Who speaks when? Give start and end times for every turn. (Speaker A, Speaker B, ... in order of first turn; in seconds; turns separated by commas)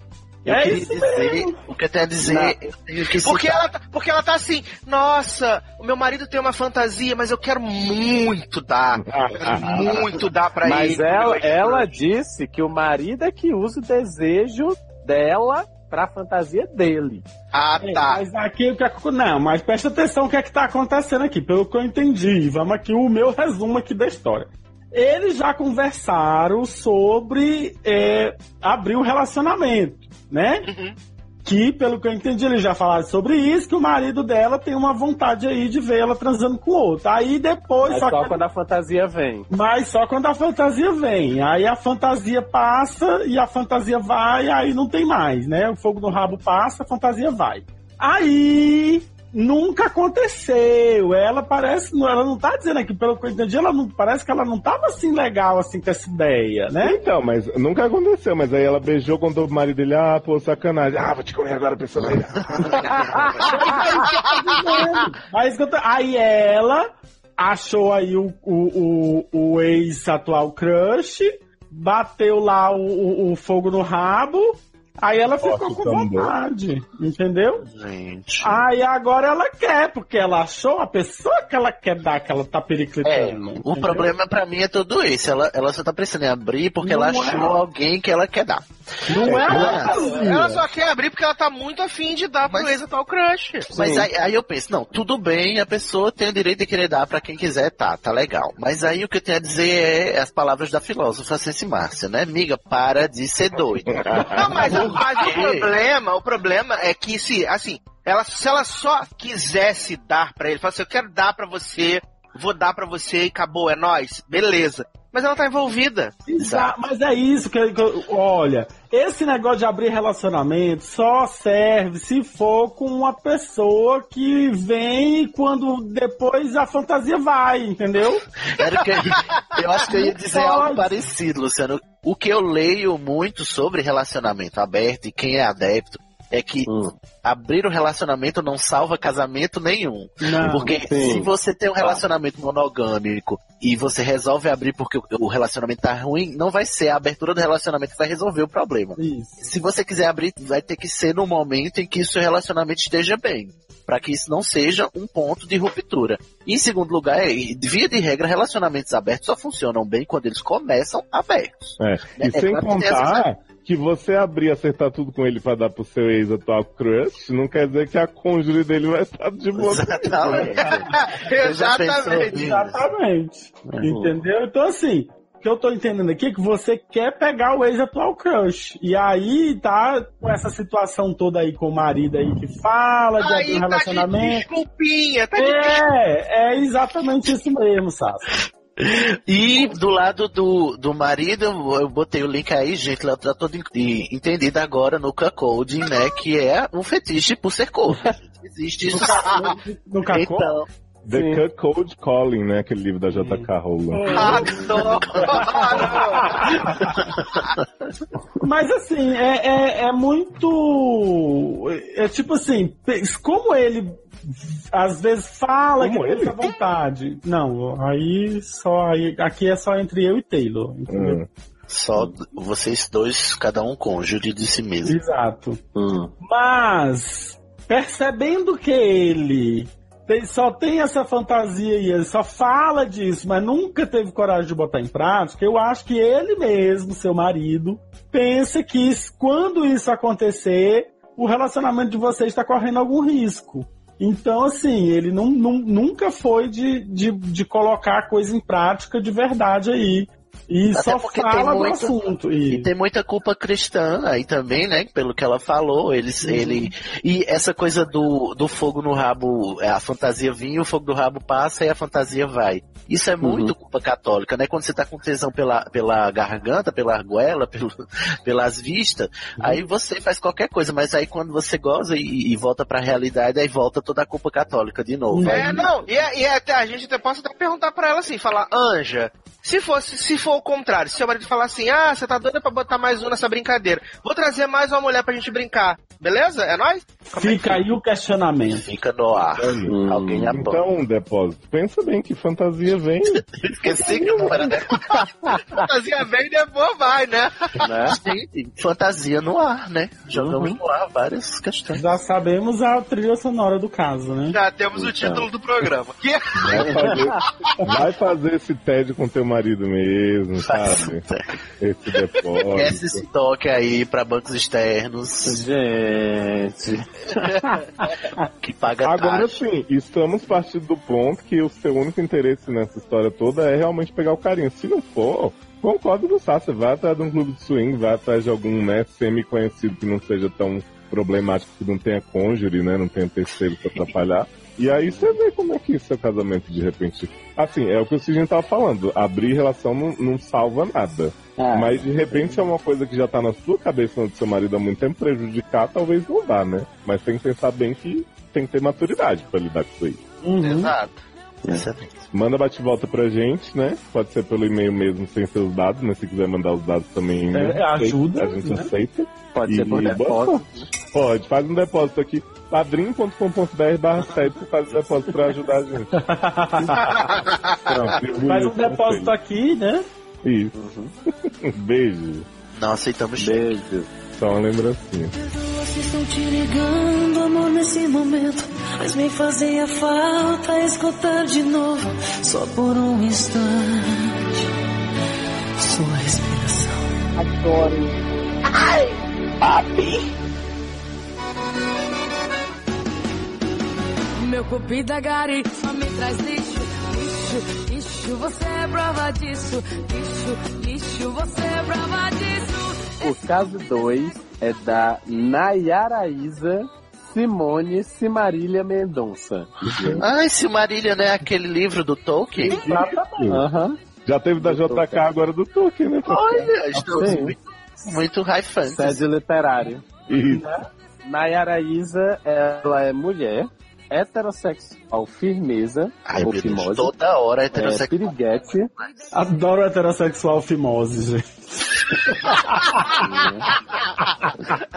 Speaker A: 0.4-3.7, Speaker B: 0.5-1.6, Speaker C: 2.2-2.5, Speaker D: 3.2-12.0, Speaker E: 9.0-10.0, Speaker A: 9.6-10.1, Speaker C: 10.6-17.2, Speaker D: 17.5-18.2, Speaker B: 17.8-30.7, Speaker D: 30.6-30.9, Speaker B: 31.4-38.4, Speaker C: 37.8-39.5, Speaker B: 39.5-57.0, Speaker E: 56.8-63.8, Speaker A: 62.6-63.3, Speaker B: 63.4-66.9, Speaker B: 67.4-77.6, Speaker E: 75.4-76.3, Speaker A: 77.6-78.6, Speaker B: 78.4-84.1, Speaker A: 83.0-90.0, Speaker B: 86.8-87.6, Speaker B: 89.1-90.6, Speaker D: 89.5-93.7, Speaker A: 92.5-92.8, Speaker A: 93.7-105.7, Speaker C: 93.8-94.0, Speaker E: 103.9-105.0, Speaker D: 104.3-116.1, Speaker B: 116.3-128.2, Speaker A: 116.4-116.7, Speaker A: 128.5-163.2, Speaker B: 130.2-130.9, Speaker C: 136.7-136.9, Speaker B: 140.2-140.7, Speaker C: 140.8-141.3, Speaker B: 149.0-149.4, Speaker E: 161.8-170.6, Speaker A: 169.5-172.8, Speaker D: 170.9-172.5, Speaker B: 172.2-184.5, Speaker C: 173.8-174.1, Speaker D: 183.2-185.8, Speaker B: 185.3-188.3, Speaker A: 188.8-199.5, Speaker B: 198.9-200.5, Speaker A: 200.1-200.7, Speaker E: 201.0-204.4, Speaker C: 201.1-201.4, Speaker B: 203.1-206.9, Speaker D: 204.1-206.5, Speaker A: 204.6-205.5, Speaker B: 208.4-221.2, Speaker E: 215.8-216.4, Speaker E: 220.9-221.3, Speaker A: 221.7-225.0, Speaker B: 224.8-225.6, Speaker C: 225.7-226.1, Speaker B: 226.2-252.7, Speaker A: 250.7-267.7, Speaker C: 263.2-263.5, Speaker A: 268.2-275.6, Speaker B: 275.1-275.7, Speaker D: 275.2-287.6, Speaker B: 287.1-288.6, Speaker A: 288.5-290.6, Speaker E: 289.4-289.7, Speaker C: 289.7-290.4, Speaker E: 290.3-293.3, Speaker A: 293.3-295.0, Speaker B: 293.9-294.5, Speaker D: 295.5-297.6, Speaker C: 297.6-298.0, Speaker A: 297.9-301.8, Speaker C: 300.1-300.6, Speaker B: 301.7-304.4, Speaker D: 304.3-306.8, Speaker C: 304.7-305.3, Speaker E: 306.4-311.0, Speaker C: 306.5-307.2, Speaker A: 310.4-311.2, Speaker E: 311.6-313.0, Speaker A: 312.5-315.4, Speaker C: 315.2-317.6, Speaker A: 318.4-319.4, Speaker E: 318.8-350.0, Speaker C: 341.4-342.4, Speaker B: 350.2-350.7, Speaker D: 350.4-351.0, Speaker A: 351.5-352.1, Speaker E: 352.1-365.9, Speaker B: 357.3-358.7, Speaker C: 359.3-360.7, Speaker B: 365.9-367.2, Speaker D: 366.9-367.5, Speaker E: 367.6-369.1, Speaker B: 368.2-369.8, Speaker E: 370.2-370.5, Speaker C: 370.5-370.9, Speaker E: 371.4-372.3, Speaker A: 372.5-373.6, Speaker C: 373.2-373.9, Speaker E: 374.1-375.1, Speaker F: 375.1-384.4, Speaker F: 385.6-386.9, Speaker G: 394.2-403.1, Speaker C: 403.0-410.0, Speaker E: 409.6-410.0, Speaker A: 410.0-412.6, Speaker B: 412.5-413.4, Speaker E: 412.6-413.4, Speaker C: 413.3-413.8, Speaker E: 414.0-416.5, Speaker C: 414.4-415.1, Speaker A: 416.0-419.0, Speaker C: 416.9-417.3, Speaker C: 418.7-419.9, Speaker E: 420.1-420.5, Speaker C: 421.0-426.9, Speaker A: 426.1-428.1, Speaker C: 427.5-428.7, Speaker B: 429.1-433.0, Speaker C: 433.0-433.5